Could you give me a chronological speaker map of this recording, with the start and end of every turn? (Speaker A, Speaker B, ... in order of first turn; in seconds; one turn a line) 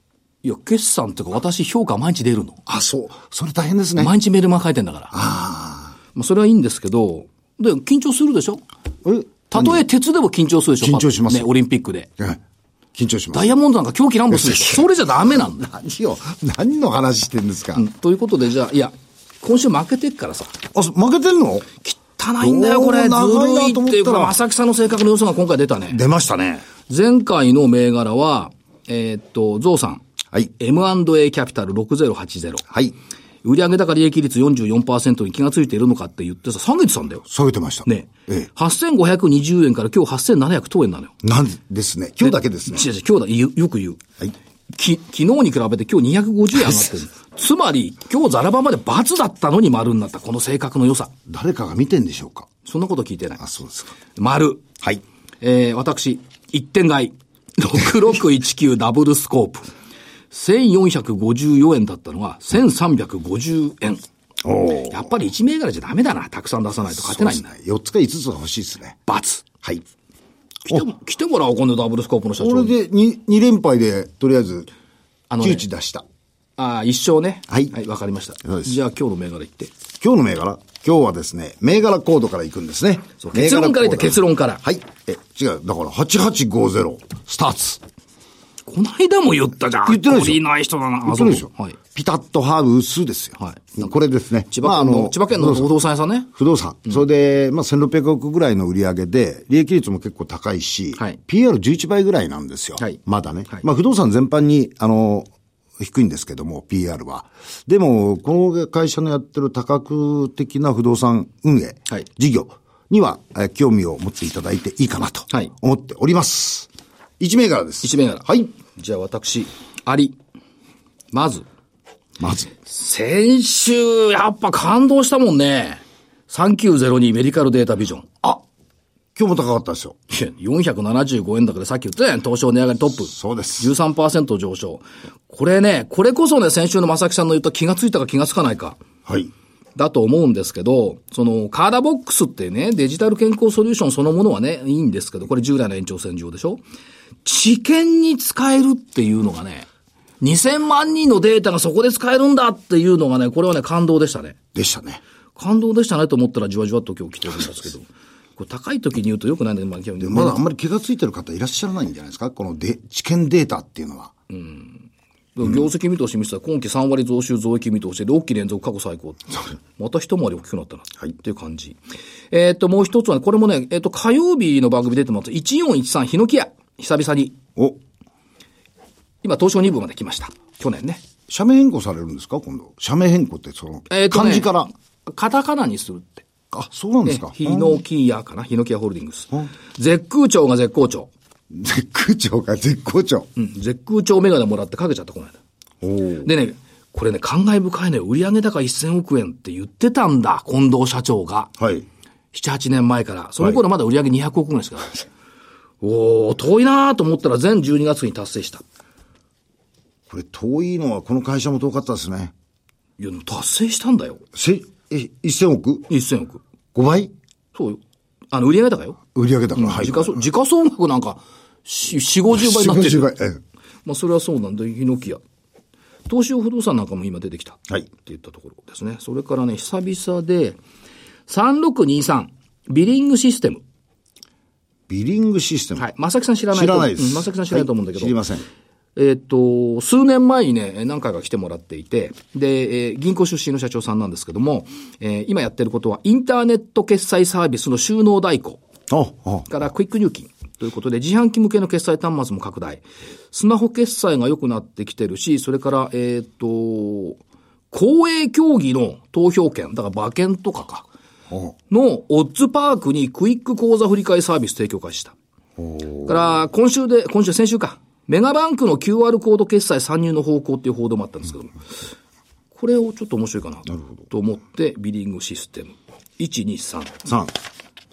Speaker A: 0.4-2.6
Speaker B: 2.7-4.1
Speaker A: 4.0-5.1
Speaker B: 5.1-6.0
Speaker A: 6.1-8.6
Speaker B: 9.0-9.8
Speaker A: 9.5-12.1
Speaker B: 10.8-11.5
Speaker B: 12.9-13.5
Speaker A: 13.3-15.7
Speaker B: 14.3-14.9
Speaker B: 15.5-17.9
Speaker A: 17.8-20.5
Speaker B: 20.7-21.7
Speaker A: 21.8-26.0
Speaker B: 22.4-24.4
Speaker B: 25.9-26.6
Speaker A: 26.9-30.0
Speaker A: 30.6-32.6
Speaker B: 32.7-33.0
Speaker A: 33.4-37.2
Speaker B: 37.3-38.5
Speaker A: 37.9-41.1
Speaker B: 41.2-42.9
Speaker A: 42.2-44.0
Speaker A: 44.7-51.1
Speaker B: 51.3-52.5
Speaker A: 52.6-53.4
Speaker B: 53.4-53.9
Speaker A: 54.1-54.8
Speaker A: 55.4-59.7
Speaker A: 60.3-64.0
Speaker B: 64.4-65.1
Speaker A: 64.9-67.5
Speaker B: 66.9-69.0
Speaker A: 69.1-69.5
Speaker A: 70.6-72.8
Speaker B: 72.4-74.7
Speaker A: 75.3-75.7
Speaker B: 75.4-76.0
Speaker A: 76.6-79.7
Speaker B: 77.5-77.7
Speaker B: 78.4-78.7
Speaker B: 80.0-87.8
Speaker A: 83.2-84.6
Speaker A: 88.7-91.8
Speaker B: 89.9-90.4
Speaker B: 91.0-95.7
Speaker A: 93.4-93.9
Speaker A: 94.5-96.3
Speaker B: 96.3-116.7
Speaker A: 102.8-103.6
Speaker B: 117.2-118.5
Speaker A: 117.8-120.2
Speaker A: 121.1-121.5
Speaker B: 122.2-122.5
Speaker A: 122.6-128.3
Speaker B: 129.1-130.0
Speaker A: 130.1-138.8
Speaker B: 133.1-133.7
Speaker B: 139.1-139.3
Speaker A: 139.8-146.6
Speaker A: 147.2-149.7
Speaker A: 150.2-154.4
Speaker B: 154.5-155.0
Speaker A: 155.4-160.4
Speaker B: 160.0-164.1
Speaker A: 164.3-164.8
Speaker A: 165.4-171.8
Speaker A: 172.3-177.4
Speaker A: 179.2-181.0
Speaker B: 181.3-184.7
Speaker A: 183.9-184.5
Speaker A: 185.1-186.2
Speaker B: 186.5-187.8
Speaker A: 187.1-191.1
Speaker B: 191.5-193.3
Speaker A: 193.4-195.4
Speaker B: 195.8-196.3
Speaker A: 196.2-201.5
Speaker B: 201.6-201.9
Speaker A: 202.3-205.0
Speaker A: 205.8-208.6
Speaker B: 210.1-212.3
Speaker A: 213.0-214.2
Speaker B: 214.3-215.9
Speaker A: 215.9-216.4
Speaker B: 216.8-217.1
Speaker A: 217.5-217.8
Speaker A: 218.3-219.0
Speaker B: 219.1-220.2
Speaker A: 219.5-223.1
Speaker B: 222.3-223.4
Speaker A: 223.8-225.2
Speaker A: 226.1-230.6
Speaker A: 231.3-233.6
Speaker B: 234.9-235.9
Speaker A: 235.8-238.2
Speaker B: 236.5-238.5
Speaker A: 239.0-248.6
Speaker B: 248.9-249.5
Speaker A: 249.5-257.2
Speaker A: 257.7-260.9
Speaker A: 261.7-265.1
Speaker B: 265.6-266.4
Speaker A: 266.1-271.6
Speaker A: 272.5-277.1
Speaker B: 277.1-277.3